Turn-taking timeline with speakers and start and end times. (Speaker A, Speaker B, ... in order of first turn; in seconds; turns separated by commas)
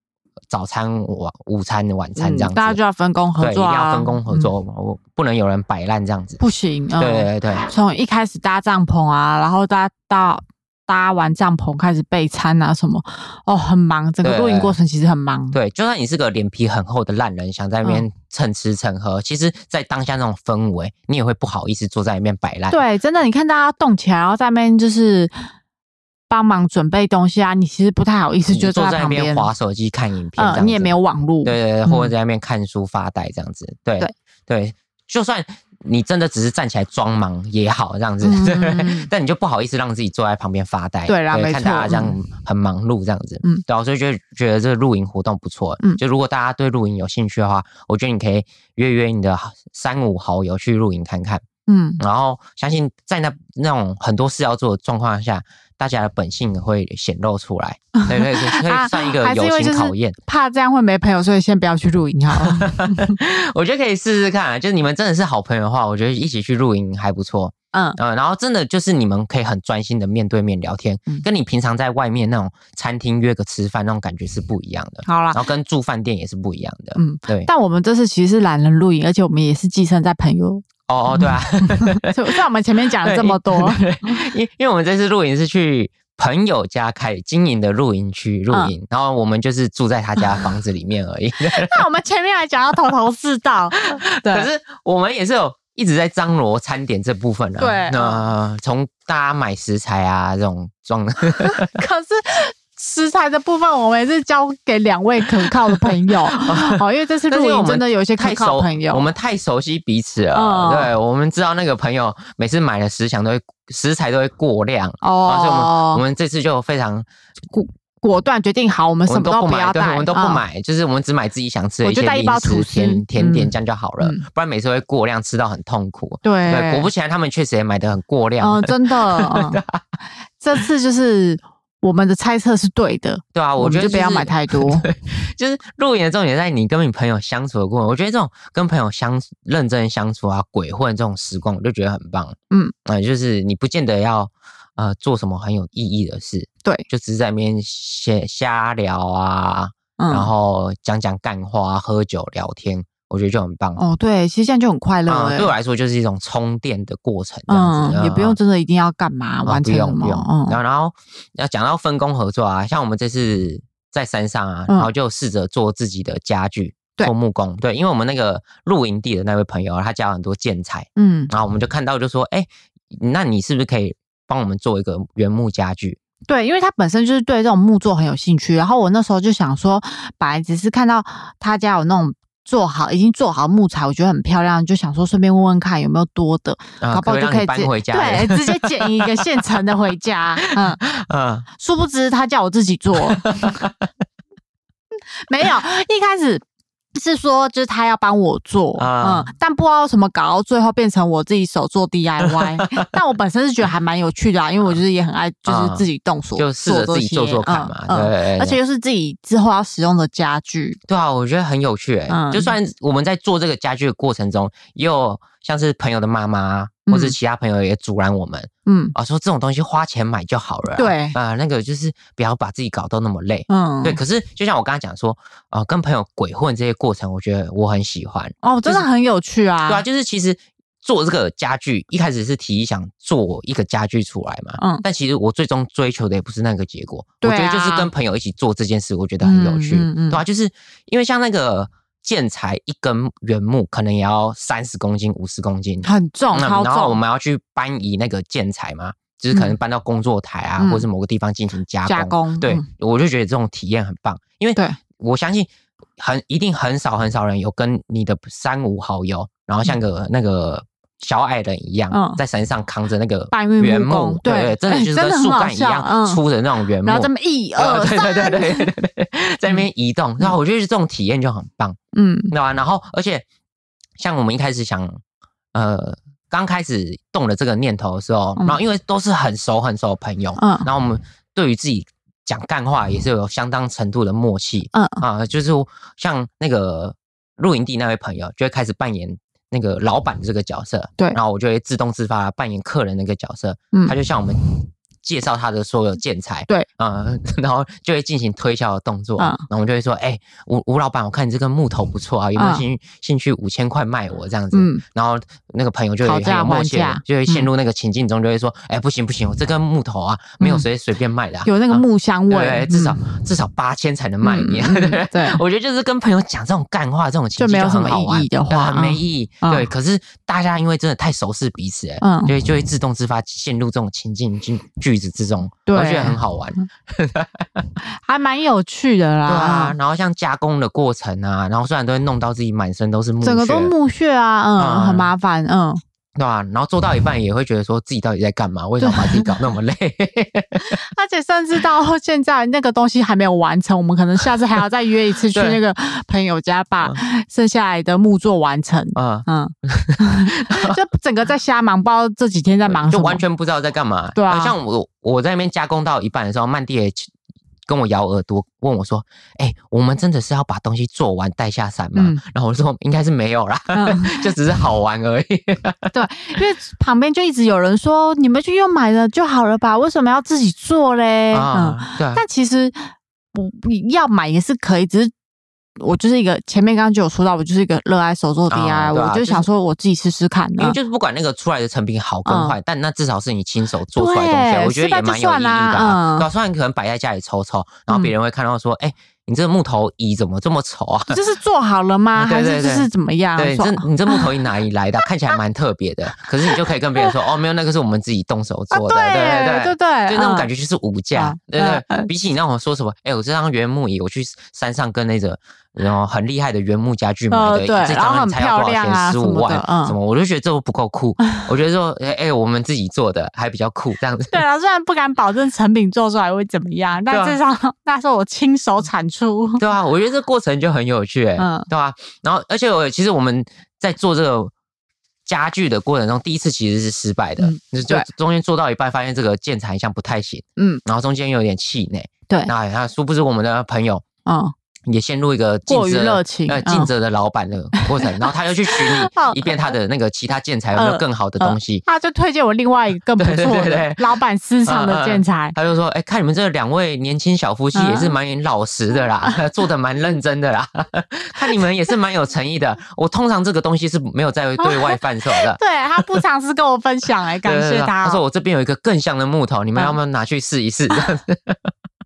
Speaker A: 0.5-2.8, Speaker B: 2.2-4.5, Speaker A: 3.4-6.4, Speaker B: 6.4-15.6, Speaker A: 7.0-7.7, Speaker A: 14.2-14.8, Speaker A: 15.5-22.8, Speaker B: 22.7-25.3, Speaker B: 26.3-29.5, Speaker A: 28.5-51.4, Speaker B: 30.4-32.1, Speaker B: 38.2-39.1, Speaker B: 41.1-42.1, Speaker B: 51.7-52.0, Speaker A: 52.0-60.2, Speaker B: 58.0-63.2, Speaker A: 62.4-77.5, Speaker B: 67.7-68.0, Speaker B: 75.1-75.4, Speaker B: 77.0-84.2, Speaker A: 80.9-82.4, Speaker A: 83.0-91.8, Speaker B: 91.5-94.5, Speaker A: 94.0-101.7, Speaker B: 97.6-98.2, Speaker B: 101.4-109.1, Speaker A: 105.8-117.1, Speaker B: 110.3-110.9, Speaker B: 115.0-116.0, Speaker B: 117.5-120.4, Speaker A: 119.1-129.8, Speaker B: 121.8-124.2, Speaker B: 126.2-126.9, Speaker B: 128.4-129.6, Speaker B: 130.4-134.9, Speaker A: 133.3-153.8, Speaker B: 150.0-150.3, Speaker B: 153.8-155.6, Speaker A: 155.1-158.4, Speaker B: 157.5-160.6, Speaker A: 159.4-176.0, Speaker B: 171.0-171.3, Speaker B: 176.3-190.8, Speaker A: 186.8-189.2, Speaker A: 190.6-191.5, Speaker B: 191.6-193.3, Speaker A: 193.0-193.8, Speaker B: 195.3-196.4, Speaker B: 196.9-210.8, Speaker A: 198.8-199.3, Speaker A: 202.2-202.9, Speaker A: 205.5-205.8, Speaker A: 206.4-208.6, Speaker A: 210.9-228.8, Speaker B: 212.1-212.5, Speaker B: 216.9-217.2, Speaker B: 218.7-218.9, Speaker B: 220.8-221.2, Speaker B: 223.5-224.0, Speaker B: 228.4-229.8, Speaker A: 229.7-271.8, Speaker B: 234.6-234.8, Speaker B: 237.2-237.9, Speaker B: 239.2-240.2, Speaker B: 245.8-247.0, Speaker B: 250.6-250.8, Speaker B: 251.9-252.7, Speaker B: 261.9-262.2, Speaker B: 263.3-266.2, Speaker B: 266.8-268.7, Speaker B: 271.9-272.3, Speaker A: 272.3-273.2, Speaker A: 274.0-275.0, Speaker A: 275.5-294.5, Speaker B: 280.4-280.7, Speaker B: 284.7-285.0, Speaker A: 295.0-327.6, Speaker B: 299.2-299.4, Speaker B: 302.4-302.6, Speaker B: 304.5-304.8, Speaker B: 306.0-307.5, Speaker B: 310.4-310.7, Speaker B: 311.4-313.0, Speaker B: 314.2-315.4, Speaker B: 317.4-319.7, Speaker B: 322.0-322.3, Speaker B: 325.7-326.2, Speaker B: 327.9-329.8, Speaker A: 329.3-333.7, Speaker B: 333.2-335.8, Speaker A: 334.6-335.1, Speaker A: 336.2-340.8, Speaker B: 338.8-339.5, Speaker B: 340.6-353.2, Speaker A: 345.3-345.6, Speaker A: 348.9-350.8, Speaker A: 352.7-357.1, Speaker B: 354.1-354.5, Speaker A: 357.7-366.4, Speaker B: 361.9-362.2, Speaker B: 363.7-364.3, Speaker B: 365.9-375.1, Speaker A: 371.3-372.2, Speaker B: 375.8-380.8, Speaker A: 378.5-379.5, Speaker A: 380.6-391.2, Speaker B: 382.3-382.6, Speaker B: 383.9-386.3, Speaker B: 391.1-394.3, Speaker A: 392.2-414.4, Speaker B: 396.4-397.1, Speaker B: 398.7-400.5, Speaker B: 401.1-402.1, Speaker B: 407.3-409.9, Speaker B: 414.3-419.6, Speaker A: 417.1-417.4, Speaker A: 419.6-424.5, Speaker B: 421.4-421.7, Speaker A: 425.3-434.0, Speaker B: 427.4-428.1, Speaker B: 430.6-430.8, Speaker B: 434.3-434.5, Speaker A: 434.9-441.8, Speaker B: 435.7-436.9, Speaker B: 437.8-439.7, Speaker B: 440.8-445.6, Speaker A: 443.2-444.1, Speaker A: 444.7-456.2, Speaker B: 447.8-448.1, Speaker B: 454.6-458.2, Speaker A: 457.4-461.7